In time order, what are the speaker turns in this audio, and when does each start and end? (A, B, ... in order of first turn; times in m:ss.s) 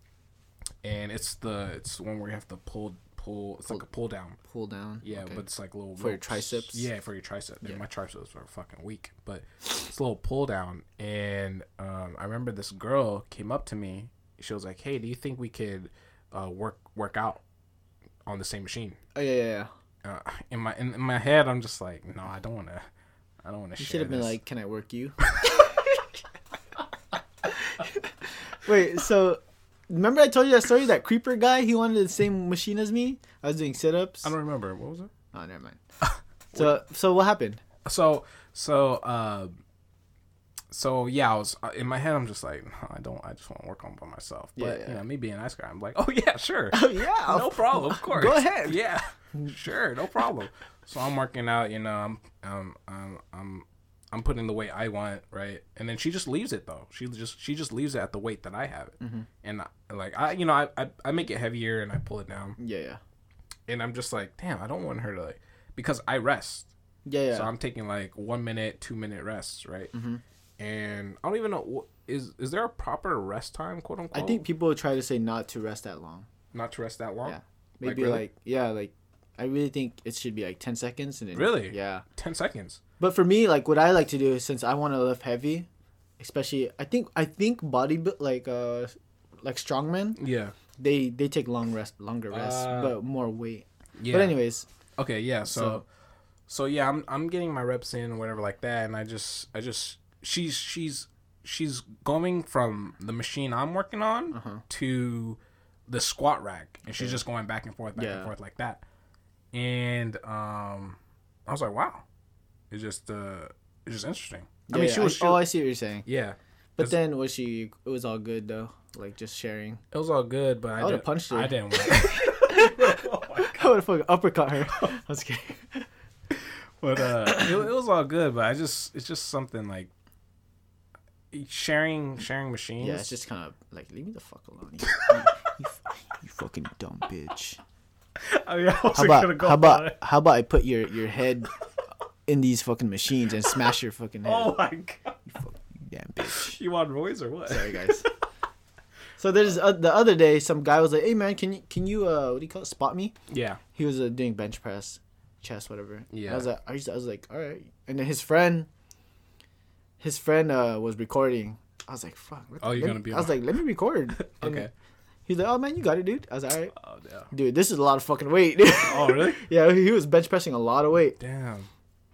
0:00.8-0:04.4 A
0:04.4-0:05.4 B
0:05.0-0:17.4 A
0:06.0-0:06.9 B
0:18.2-0:19.0 A
0:19.1-0:19.7 B
0:20.0-0:22.8 A
0:23.4-0:24.4 A
0:23.8-0:26.0 B
0:27.4-0:34.3 B
0:34.2-0:35.1 A
0:35.3-0:35.8 B
0:36.0-0:36.8 A
0:36.5-0:37.6 B
0:37.8-0:39.5 A
0:40.7-1:02.6 A
0:44.6-0:45.0 B
0:46.7-0:48.8 B
0:59.0-0:59.3 B
1:02.6-1:03.0 B
1:03.7-1:06.7 A
1:07.0-1:07.5 B
1:07.3-1:09.9 A
1:09.9-1:10.2 B
1:10.6-1:14.4 A
1:14.1-1:16.3 B
1:16.5-1:18.2 A
1:17.2-1:22.0 B
1:21.3-1:22.8 A
1:23.0-1:25.7 B
1:26.2-1:30.2 B
1:30.2-1:30.5 A
1:30.8-1:34.6 B
1:32.3-1:33.0 A
1:34.0-1:34.4 A
1:35.0-1:35.8 A
1:35.4-1:35.8 B
1:36.5-1:48.8 A
1:44.3-1:44.6 B
1:46.9-1:47.2 B
1:48.0-1:48.3 B
1:49.5-1:52.0 A
1:52.7-1:55.4 A
1:54.7-1:56.1 B
1:56.0-1:57.0 A
1:56.8-1:59.8 B
1:59.9-2:03.7 A
2:00.8-2:05.9 B
2:06.3-2:09.9 A
2:07.2-2:07.6 B
2:11.3-2:13.1 A
2:12.8-2:17.6 B
2:14.8-2:15.3 A
2:18.2-2:20.0 A
2:18.9-2:21.5 B
2:22.3-2:24.6 B
2:24.2-2:25.2 A
2:25.3-2:26.6 B
2:26.2-2:28.1 A
2:27.5-2:28.1 B
2:29.2-2:33.1 B
2:33.3-2:33.6 A
2:33.7-2:38.7 B
2:36.1-2:36.5 A
2:40.0-2:44.7 B
2:42.6-2:43.4 A
2:44.1-2:44.7 A
2:45.3-2:46.7 B
2:46.7-2:47.3 A
2:47.3-2:51.2 B
2:48.8-2:49.4 A
2:51.2-2:51.7 A